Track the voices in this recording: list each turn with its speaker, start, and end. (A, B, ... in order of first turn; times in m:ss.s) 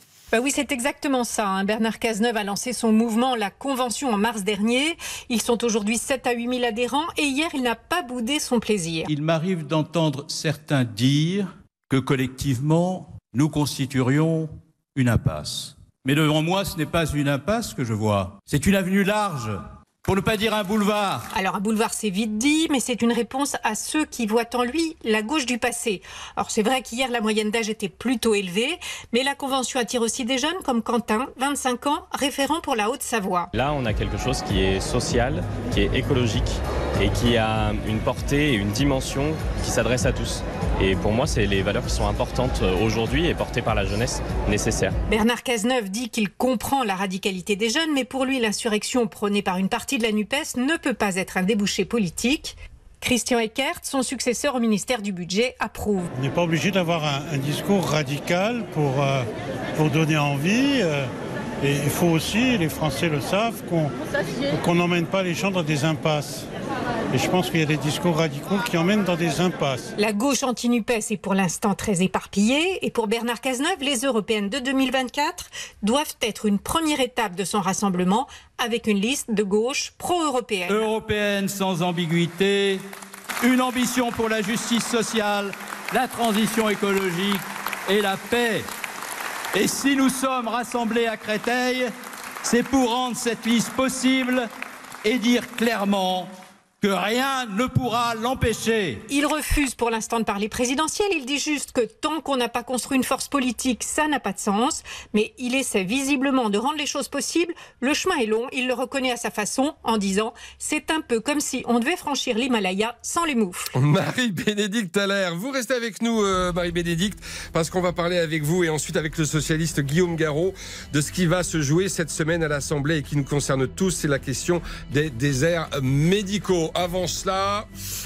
0:00.3-0:09.1 A
0:09.1-0:21.3 B
0:21.3-0:33.5 A
0:33.5-0:45.0 C
0:45.1-0:56.1 A
0:56.2-0:59.2 D
0:59.8-1:01.0 D
1:01.6-1:03.9 D
1:04.5-1:06.4 D
1:07.1-1:09.9 D
1:10.0-1:20.9 A
1:20.7-1:22.8 B
1:23.4-1:28.6 B
1:29.5-1:31.9 B
1:32.4-1:34.5 B
1:35.0-1:39.0 B
1:39.1-1:53.7 A
1:53.8-2:07.7 E